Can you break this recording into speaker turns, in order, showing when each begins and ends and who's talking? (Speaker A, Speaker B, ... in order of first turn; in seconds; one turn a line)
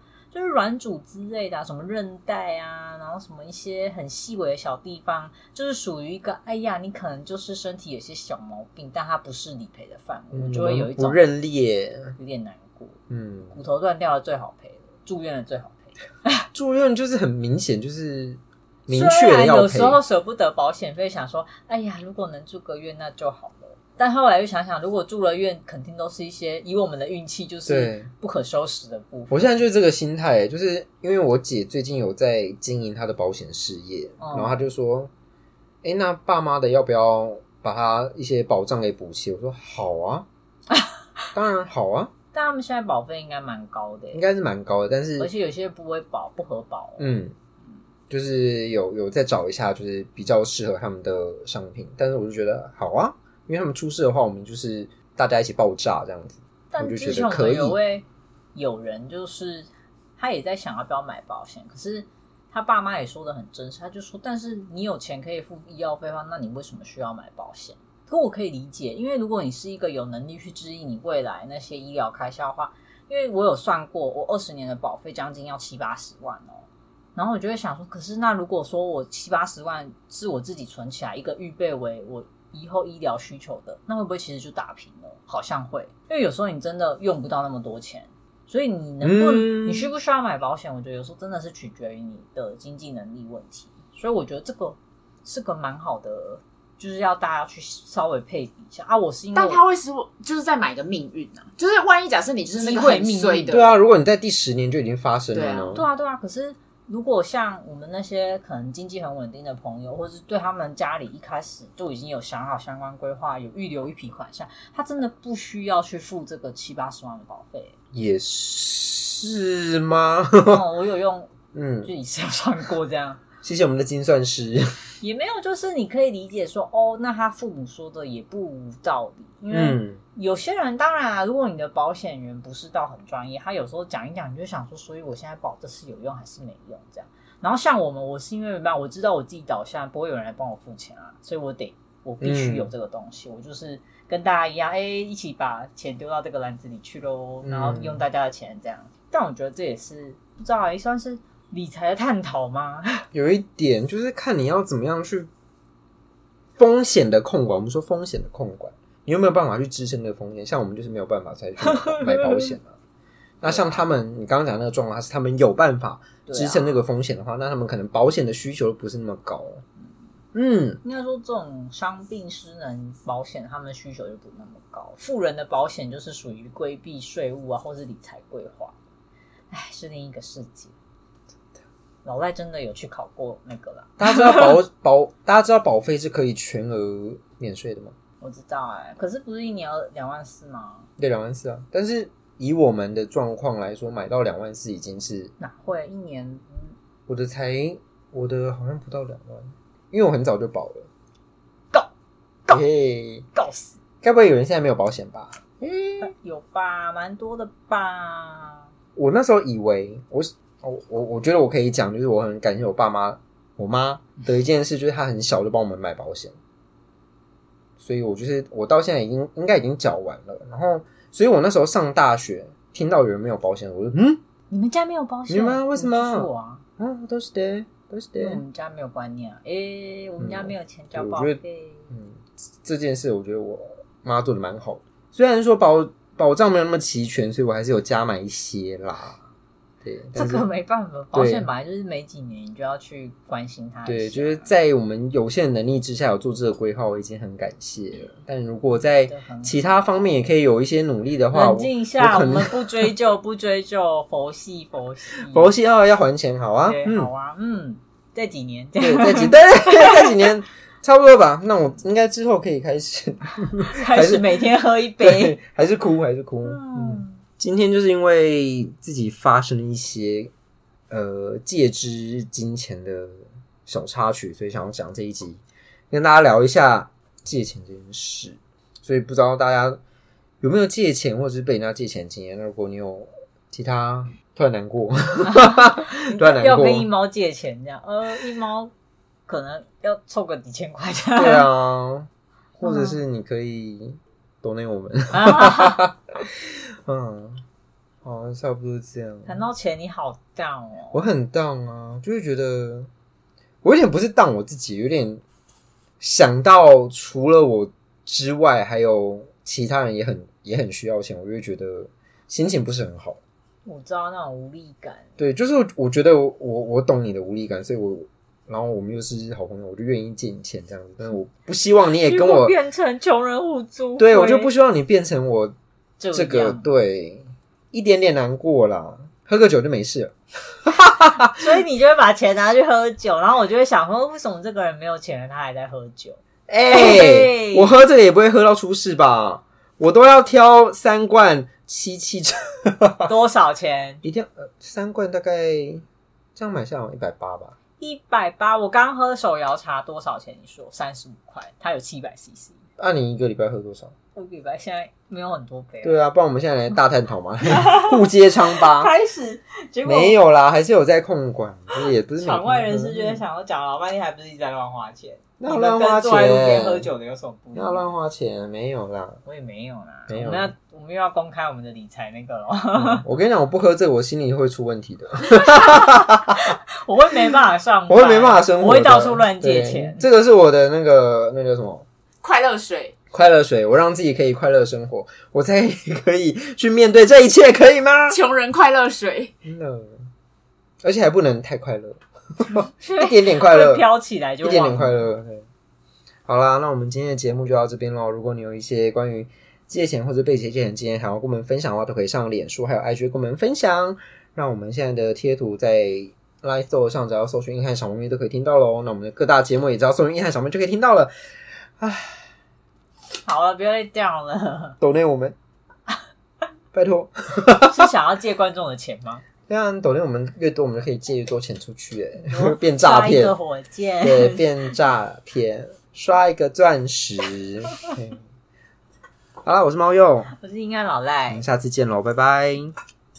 Speaker A: 0.3-11.2
Speaker B: 10.3-12.1
Speaker A: 12.2-13.0
Speaker B: 13.1-13.6
Speaker A: 13.5-16.4
Speaker B: 16.5-20.0
Speaker A: 18.9-29.5
Speaker B: 27.6-28.1
Speaker B: 29.3-35.1
Speaker A: 34.2-34.6
Speaker B: 35.8-40.3
Speaker B: 41.3-42.1
Speaker A: 42.3-44.2
Speaker B: 44.1-45.3
Speaker A: 45.2-47.2
Speaker B: 47.0-47.3
Speaker B: 48.1-57.8
Speaker A: 56.7-76.6
Speaker A: 77.2-99.6
Speaker B: 89.0-89.9
Speaker C: 99.3-103.7
Speaker A: 102.6-103.5
Speaker B: 103.5-105.8
Speaker C: 105.3-105.8
Speaker A: 105.7-117.7
Speaker B: 117.9-120.6
Speaker A: 120.4-121.3
Speaker B: 121.5-121.9
Speaker A: 121.8-123.2
Speaker B: 123.4-124.7
Speaker A: 125.0-153.1
Speaker B: 129.5-130.0
Speaker B: 142.2-142.7
Speaker B: 147.4-148.0
Speaker B: 153.1-155.3
Speaker B: 156.6-162.8
Speaker A: 161.6-162.6
Speaker B: 163.4-169.6
Speaker A: 163.4-163.8
Speaker A: 166.2-166.8
Speaker B: 170.3-170.8
Speaker A: 170.8-178.7
Speaker A: 179.5-180.7
Speaker A: 182.0-184.6
Speaker B: 184.0-187.9
Speaker A: 188.2-190.9
Speaker B: 191.0-195.3
Speaker A: 195.4-196.7
Speaker B: 197.1-200.9
Speaker B: 202.5-203.2
Speaker A: 203.3-203.7
Speaker B: 204.0-206.1
Speaker A: 206.0-208.7
Speaker B: 208.9-216.3
Speaker B: 217.8-224.2
Speaker A: 224.5-226.6
Speaker B: 225.3-228.4
Speaker A: 228.2-231.9
Speaker B: 230.2-231.4
Speaker B: 231.9-239.2
Speaker B: 239.8-240.4
Speaker A: 240.1-244.5
Speaker B: 241.1-241.5
Speaker B: 243.8-252.9
Speaker A: 249.1-249.8
Speaker A: 251.3-255.5
Speaker B: 255.3-257.1
Speaker A: 256.6-260.2
Speaker B: 258.8-270.3
Speaker A: 263.7-265.4
Speaker A: 266.4-267.2
Speaker B: 270.9-275.4
Speaker B: 275.9-279.8
Speaker B: 280.4-286.9
Speaker A: 285.3-288.7
Speaker A: 289.3-291.5
Speaker B: 291.1-297.4
Speaker A: 292.6-293.0
Speaker A: 295.1-295.8
Speaker B: 298.0-299.4
Speaker A: 299.2-301.0
Speaker B: 300.9-302.9
Speaker B: 303.6-305.2
Speaker B: 306.0-313.2
Speaker A: 313.6-315.1
Speaker B: 315.2-322.5
Speaker A: 322.0-324.5
Speaker B: 324.0-325.5
Speaker A: 326.0-326.6
Speaker B: 326.1-331.5
Speaker A: 331.4-337.7
Speaker B: 336.5-343.1
Speaker A: 343.1-344.0
Speaker B: 344.0-345.8
Speaker B: 346.4-347.6
Speaker A: 347.8-352.6
Speaker B: 352.8-353.9
Speaker A: 354.1-356.0
Speaker B: 355.8-358.9
Speaker A: 357.5-358.0
Speaker A: 358.6-360.2
Speaker B: 359.8-363.2
Speaker A: 362.2-367.8
Speaker B: 365.4-366.9
Speaker B: 367.5-369.2
Speaker A: 369.2-373.0
Speaker B: 370.1-370.5
Speaker B: 372.7-376.5
Speaker A: 375.3-380.0
Speaker B: 377.9-381.8
Speaker C: 382.2-382.9
Speaker B: 383.1-388.2
Speaker C: 388.1-389.3
Speaker B: 389.4-390.1
Speaker B: 390.8-393.9
Speaker A: 392.5-395.0
Speaker B: 394.4-395.4
Speaker B: 396.3-411.1
Speaker B: 411.8-412.2
Speaker A: 413.2-414.8
Speaker B: 414.8-415.4
Speaker B: 416.7-417.9
Speaker A: 417.6-419.2
Speaker B: 419.5-423.3
Speaker A: 422.2-424.7
Speaker B: 424.0-428.2
Speaker B: 429.4-430.3
Speaker A: 430.3-431.4
Speaker B: 431.3-432.7